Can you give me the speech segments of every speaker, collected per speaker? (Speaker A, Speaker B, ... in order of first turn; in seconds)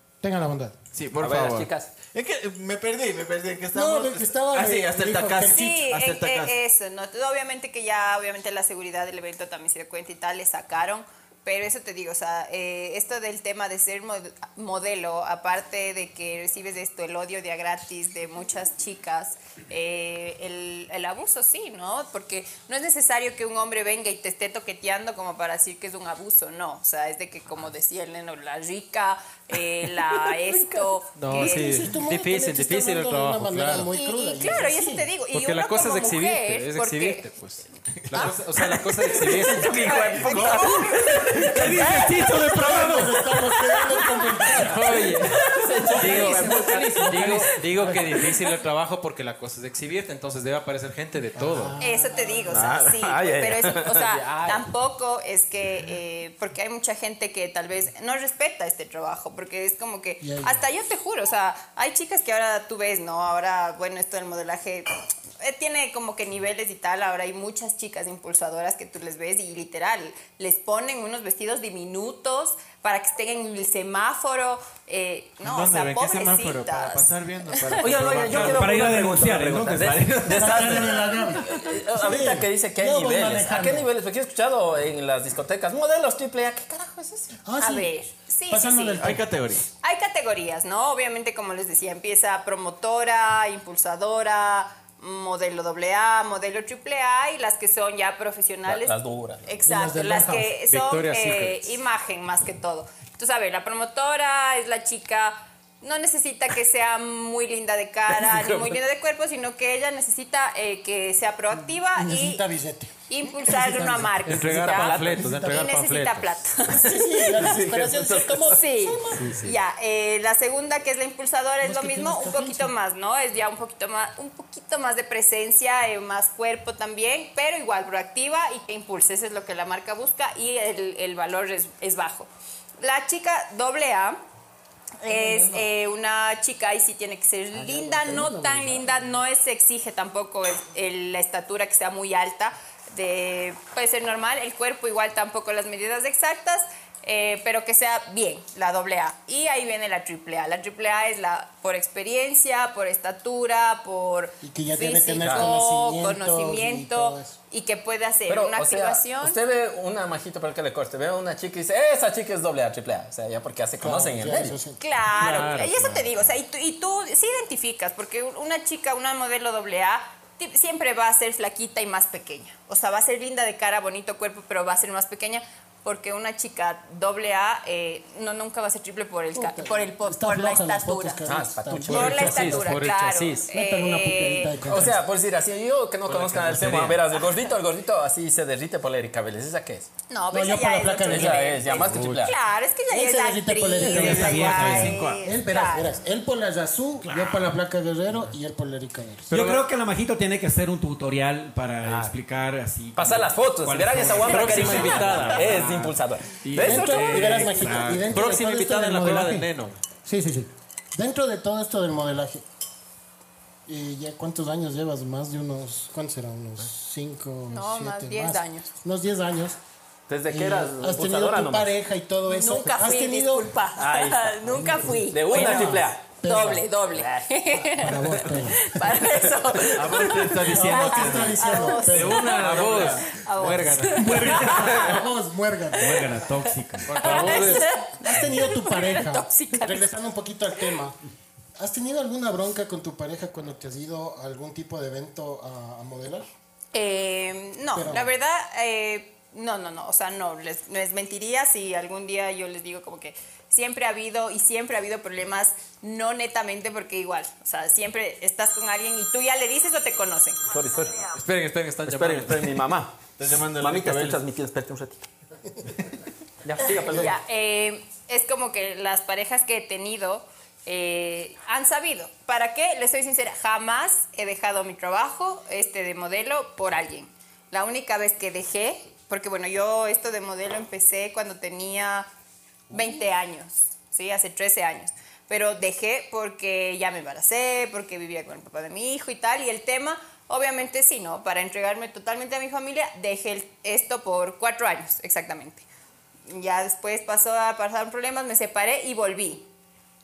Speaker A: 0.2-0.8, 3.7-5.7, 31.3-35.1, 41.9-45.3, 45.9-48.1, 51.4-52.6, 60.2-60.6, 80.3-83.9, 87.4-88.0, 88.5-89.3, 99.7-100.6, 112.0-114.3, 115.2-115.6, 116.7-119.4, 121.6-122.8, 135.1-135.7, 137.5-139.1, 154.4-157.4, 163.8-164.8, 179.3-182.7, 183.5-185.0, 190.3-191.6, 192.9-199.3, 206.6-212.4, 213.7-219.6, 220.3-223.6, 224.4-226.7, 227.7-228.8, 230.4-232.4, 233.9-236.1, 237.3-241.0, 241.6-246.3, 247.7-248.1
Speaker B: 0.9-6.5, 40.1-41.7, 75.4-78.9, 79.7-80.9, 89.0-89.7, 194.1-195.2, 229.7-233.2, 263.2-264.2
Speaker C: 1.2-1.9, 30.1-30.9, 38.6-42.2, 44.8-48.3, 52.5-54.7, 77.8-87.4, 98.7-99.4, 108.2-108.8, 114.5-115.3, 117.3-118.6, 155.2-155.5, 158.3-164.6, 181.3-182.6, 184.6-189.9, 191.1-192.3, 201.8-202.1, 203.0-207.6, 220.1-221.7, 223.8-224.4, 225.1-226.1, 260.5-261.1, 261.9-265.1, 266.4-267.2
Speaker D: 5.5-31.9, 33.9-37.3, 39.6-41.2, 51.8-77.9, 87.6-89.1, 89.8-112.4, 113.1-117.4, 118.4-132.3, 132.8-134.2, 135.0-159.4, 164.8-181.2, 181.9-184.6, 187.1-187.5, 190.1-196.0, 217.5-218.7, 222.3-235.0, 236.9-239.9, 246.7-261.0, 266.9-282.1, 282.7-295.7, 296.3-299.5
Speaker E: 31.2-33.9, 35.3-39.8, 44.5-51.8, 100.7-101.8, 114.2-116.4, 119.2-119.5, 165.2-166.1, 181.8-183.5, 186.1-187.0, 191.8-192.3, 199.3-199.6, 204.2-205.8, 207.6-209.8, 232.2-234.6, 236.9-237.8, 261.1-262.6
Speaker F: 41.5-43.2, 78.3-80.8, 193.8-195.0, 197.1-197.4, 199.3-205.9, 206.4-208.1, 235.7-237.2